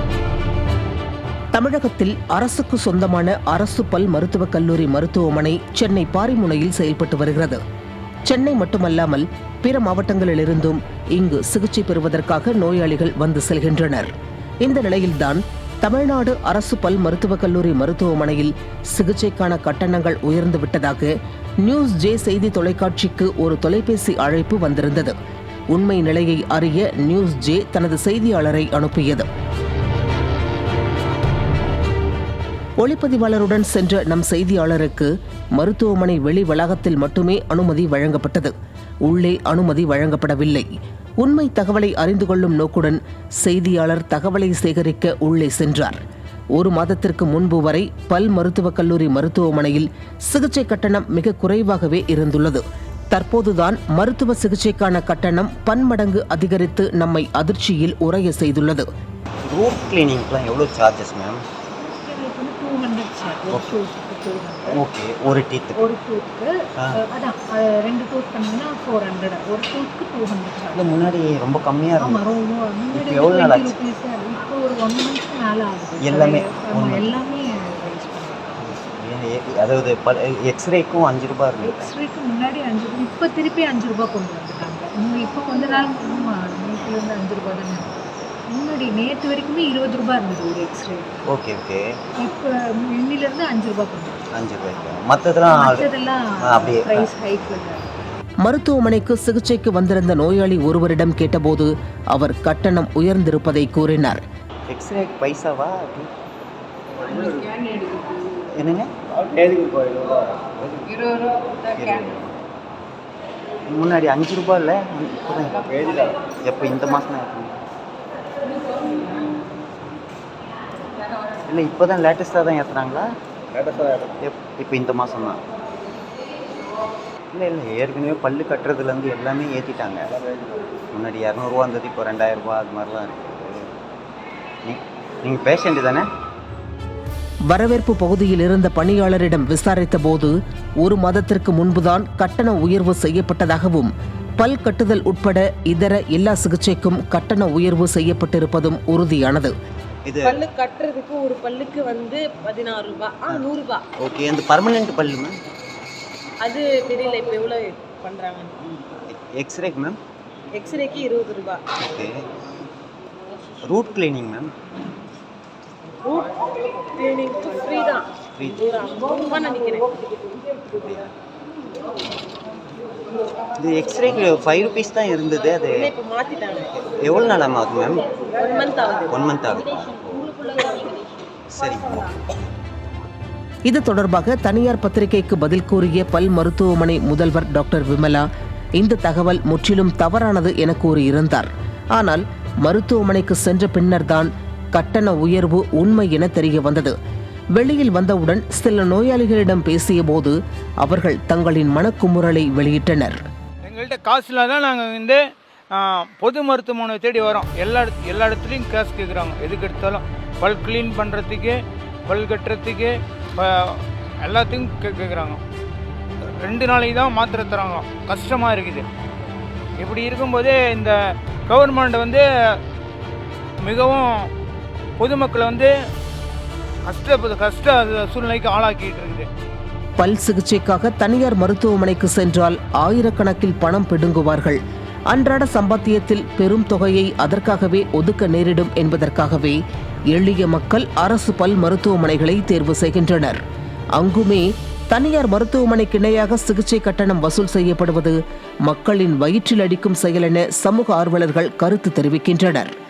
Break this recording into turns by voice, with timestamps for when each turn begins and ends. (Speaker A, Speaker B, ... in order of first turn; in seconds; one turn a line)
Speaker A: 1.5-7.6
Speaker A: 8.2-14.1
Speaker A: 14.6-21.1
Speaker A: 21.6-25.1
Speaker A: 25.7-29.3
Speaker A: 32.8-38.5
Speaker A: 39.0-40.7
Speaker A: 41.2-46.0
Speaker A: 46.5-58.9
Speaker B: 59.4-61.4
Speaker C: 61.7-64.8
Speaker B: 63.5-63.8
Speaker B: 64.7-65.8
Speaker C: 65.7-71.0
Speaker B: 70.7-72.2
Speaker C: 72.0-78.6
Speaker B: 72.9-73.8
Speaker B: 76.0-77.1
Speaker B: 78.7-81.9
Speaker C: 81.6-91.2
Speaker B: 91.3-91.8
Speaker C: 92.2-94.2
Speaker B: 94.3-95.9
Speaker C: 95.5-97.9
Speaker B: 96.4-97.1
Speaker A: 98.4-104.2
Speaker B: 104.7-106.1
Speaker B: 108.5-108.9
Speaker B: 111.7-112.4
Speaker B: 113.7-117.6
Speaker B: 121.5-123.0
Speaker B: 124.2-125.4
Speaker B: 127.3-130.1
Speaker B: 130.9-133.6
Speaker B: 134.6-136.0
Speaker A: 137.5-149.5
Speaker B: 150.1-150.4
Speaker D: 150.2-153.9
Speaker B: 154.0-155.3
Speaker D: 156.4-158.5
Speaker B: 159.1-160.0
Speaker D: 160.6-161.7
Speaker B: 161.8-162.1
Speaker B: 163.6-164.5
Speaker D: 166.1-170.2
Speaker B: 168.3-168.7
Speaker B: 170.7-171.1
Speaker B: 173.6-175.9
Speaker D: 175.7-176.7
Speaker B: 176.8-178.0
Speaker D: 178.4-181.2
Speaker B: 179.1-180.3
Speaker B: 181.5-182.2
Speaker A: 183.7-188.2
Speaker A: 188.8-196.9
Speaker A: 197.5-203.2
Speaker E: 203.7-205.2
Speaker E: 205.8-215.4
Speaker E: 216.4-218.8
Speaker E: 219.8-220.9
Speaker E: 221.5-222.2
Speaker E: 223.7-224.2
Speaker E: 225.0-225.7
Speaker E: 226.9-229.2
Speaker A: 230.0-239.6
Speaker A: 240.1-243.4
Speaker A: 243.9-252.7